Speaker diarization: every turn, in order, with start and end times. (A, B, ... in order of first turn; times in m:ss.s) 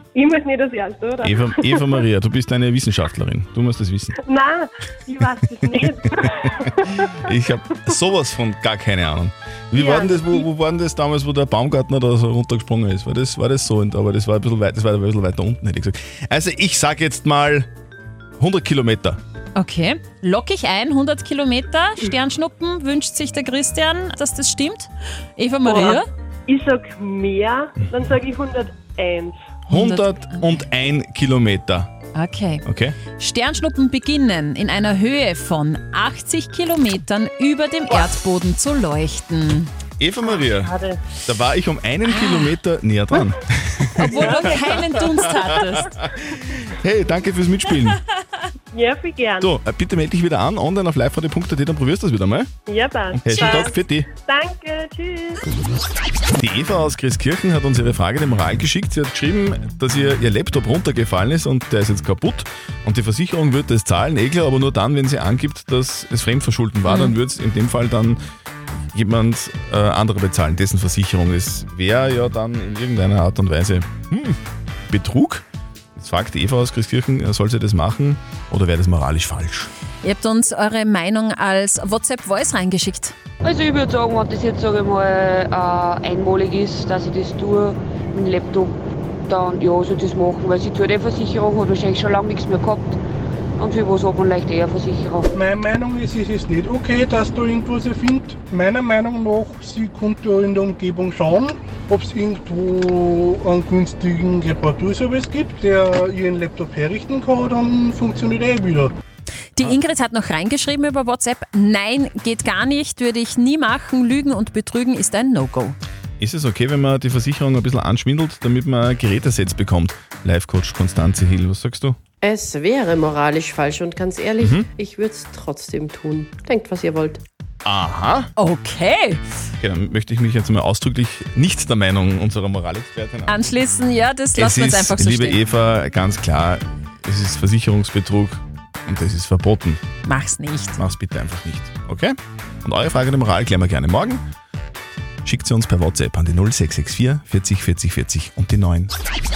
0:00.1-0:02.0 A
0:01.2-0:04.1 B
0:04.2-0:07.2 A
0:06.2-0:17.7 B
0:09.8-0:10.4 A
0:18.4-0:19.2 B
0:19.6-0:26.1 C
0:25.6-0:29.3 A
0:29.7-0:31.9 B
0:29.7-0:30.5 C
0:32.1-0:32.6 C
0:32.6-0:33.0 B
0:33.2-0:39.7 C
0:40.0-0:48.0 B
0:40.2-0:41.0 A
0:42.0-0:42.5 C
0:44.0-0:45.9 C
0:44.2-0:44.6 A
0:48.7-0:49.5 A
0:49.4-0:52.5 B
0:52.7-0:55.4 A
0:53.1-0:54.1 B
0:56.4-1:08.2 B
1:06.8-1:07.1 C
1:08.9-1:14.4 B
1:14.9-1:15.4 B
1:16.0-1:19.7 B
1:20.0-1:23.1 C
1:23.4-1:33.0 D
1:33.6-1:35.3 D
1:35.3-1:48.9 E
1:49.6-1:55.8 C
1:56.2-2:02.0 B
2:02.2-2:07.2 F
2:04.4-2:04.7 B
2:07.6-2:08.3 B
2:08.4-2:09.2 C
2:09.6-2:13.5 B
2:13.3-2:15.4 C
2:14.3-2:19.8 B
2:20.0-2:20.8 C
2:20.8-2:24.2 B
2:25.2-2:28.9 B